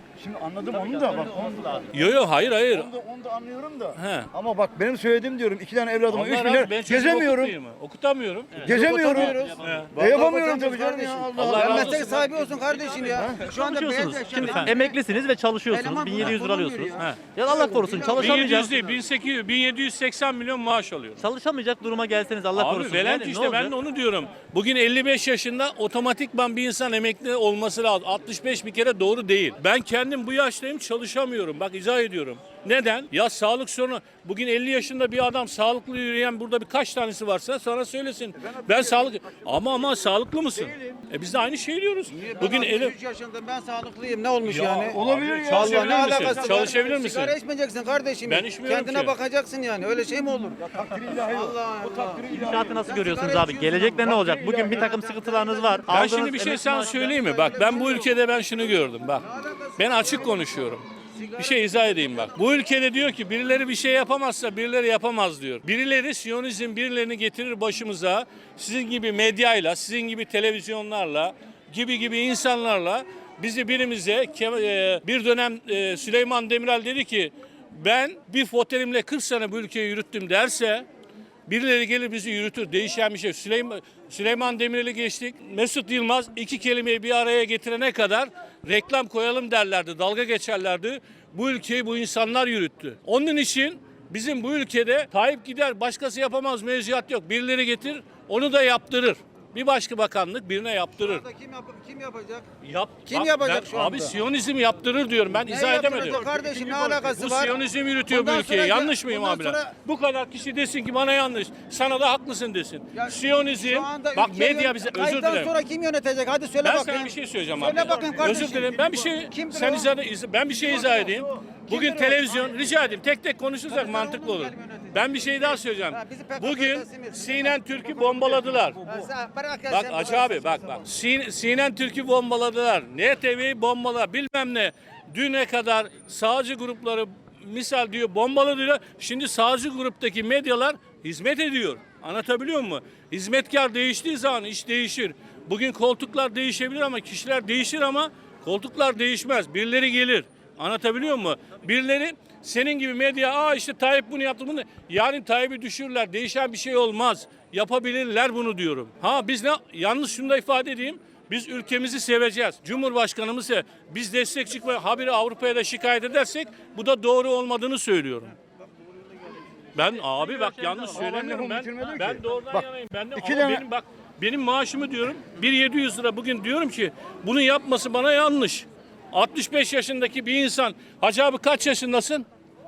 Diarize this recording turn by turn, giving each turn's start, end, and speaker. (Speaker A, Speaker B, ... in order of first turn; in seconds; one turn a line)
Speaker A: 0.2-1.9
Speaker B: 0.7-2.1
Speaker C: 1.9-2.9
Speaker A: 2.7-7.6
Speaker C: 4.0-4.3
Speaker C: 6.1-8.7
Speaker B: 8.6-9.8
Speaker A: 8.6-9.4
Speaker D: 8.6-14.9
Speaker C: 9.6-9.9
Speaker A: 10.0-12.2
Speaker C: 11.4-12.8
Speaker A: 13.1-13.4
Speaker B: 13.4-18.8
Speaker D: 15.7-19.0
Speaker C: 18.1-21.2
Speaker B: 21.2-23.7
Speaker C: 22.6-43.0
Speaker A: 38.4-39.5
Speaker A: 40.6-41.0
Speaker D: 42.1-58.2
Speaker C: 44.5-47.4
Speaker A: 44.9-46.7
Speaker C: 48.2-49.2
Speaker A: 50.6-53.2
Speaker B: 52.3-57.0
Speaker A: 54.0-54.9
Speaker C: 55.9-80.9
Speaker D: 59.2-62.4
Speaker C: 81.5-101.2
Speaker D: 101.0-102.5
Speaker C: 102.6-106.2
Speaker D: 103.1-104.2
Speaker D: 105.4-107.6
Speaker A: 106.0-107.1
Speaker C: 106.8-115.5
Speaker D: 108.1-109.7
Speaker D: 112.9-119.9
Speaker C: 116.6-128.8
Speaker A: 117.7-119.1
Speaker D: 120.5-122.6
Speaker A: 121.2-121.5
Speaker D: 123.7-127.6
Speaker A: 128.0-129.1
Speaker D: 128.8-130.9
Speaker C: 129.7-168.3
Speaker C: 169.8-182.3
Speaker B: 170.0-171.2
Speaker A: 170.9-173.7